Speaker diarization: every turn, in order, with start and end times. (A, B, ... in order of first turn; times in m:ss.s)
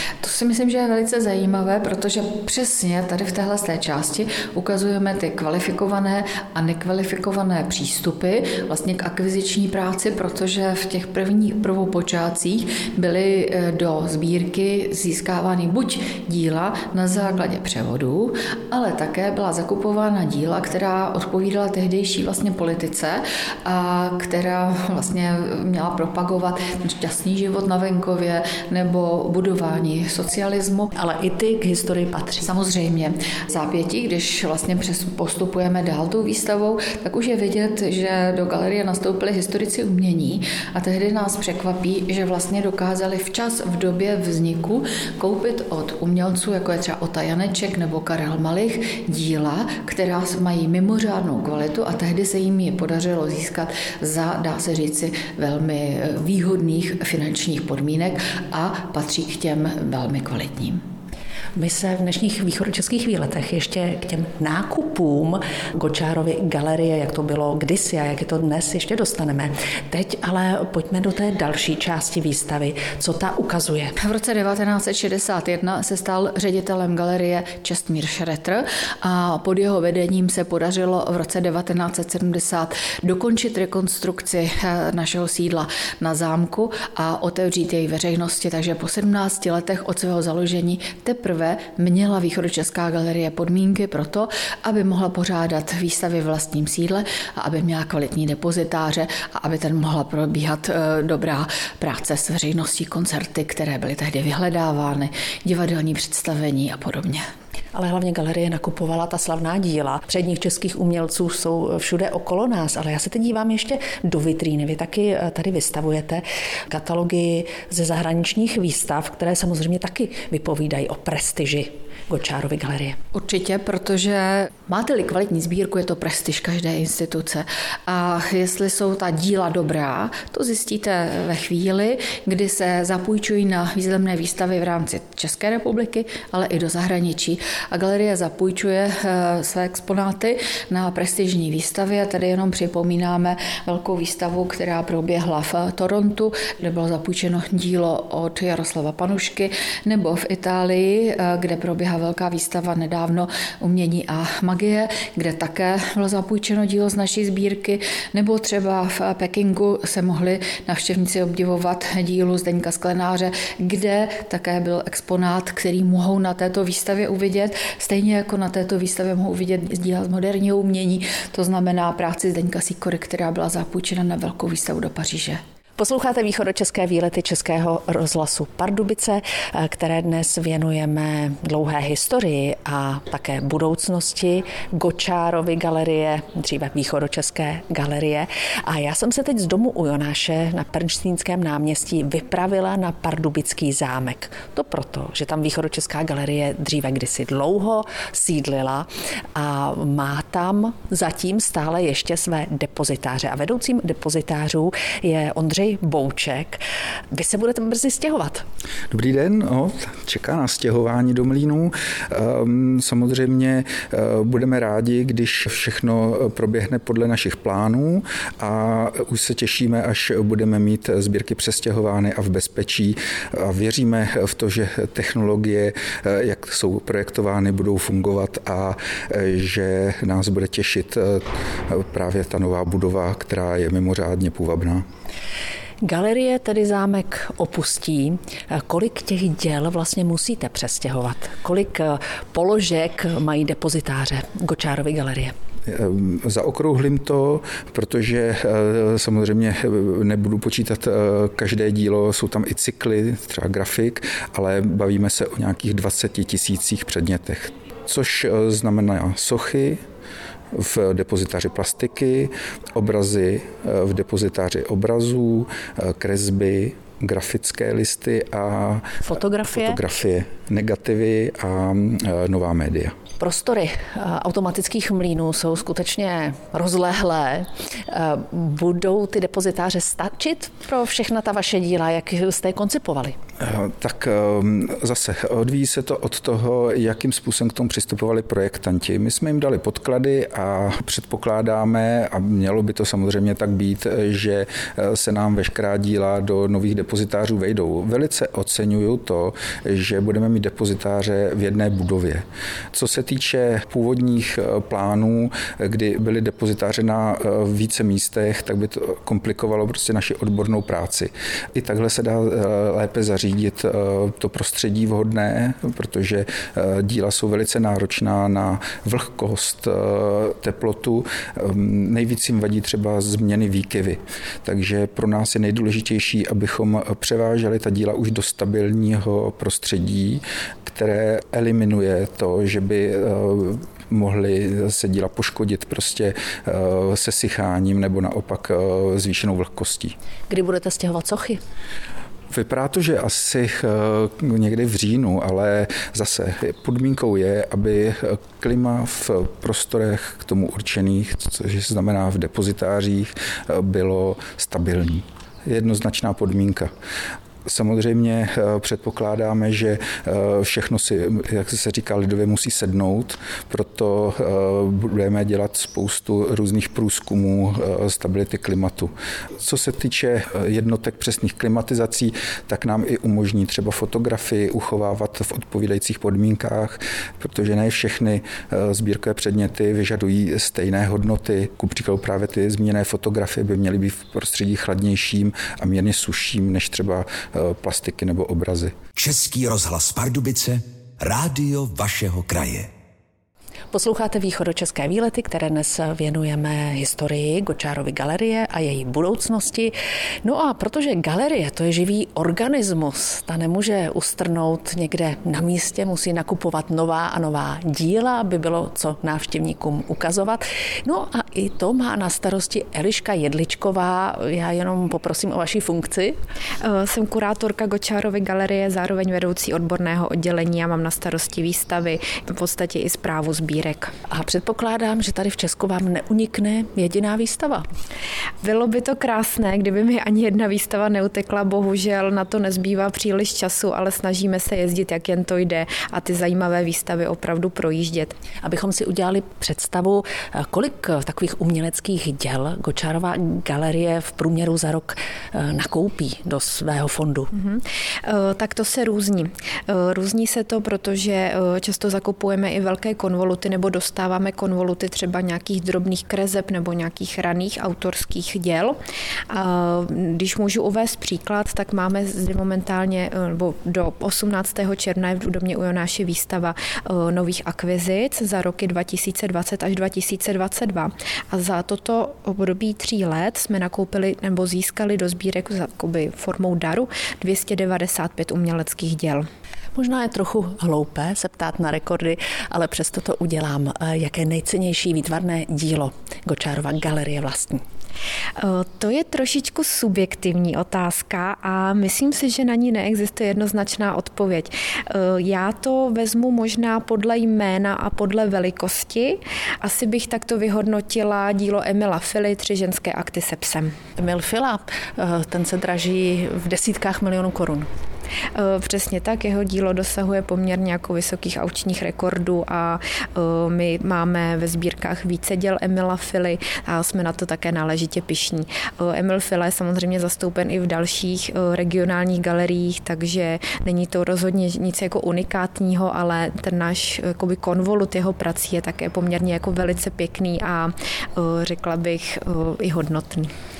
0:00.2-0:30.9 A
0:30.9-0:32.5 B
0:32.4-1:00.8 A
1:01.6-1:13.9 B
1:14.0-1:47.2 A
1:47.7-2:03.0 B
2:03.1-2:55.4 A
2:55.8-3:28.4 B
3:28.9-3:54.8 C
3:55.8-4:05.3 B
4:05.7-4:19.8 C
4:20.5-4:33.0 C
4:29.0-4:29.8 B
4:33.2-4:43.2 B
4:43.4-5:39.9 C
5:40.3-5:41.4 B
5:42.3-5:56.7 C
5:57.4-6:28.8 C
6:29.0-6:32.7 D
6:33.7-6:56.2 B
6:56.6-7:03.9 E
7:04.1-7:07.7 B
7:08.4-7:18.1 E
7:18.4-7:27.3 B
7:27.3-7:38.8 E
7:39.3-7:59.3 E
7:59.8-8:07.6 B
8:08.4-8:23.7 E
8:24.0-8:27.7 B
8:28.3-8:53.3 E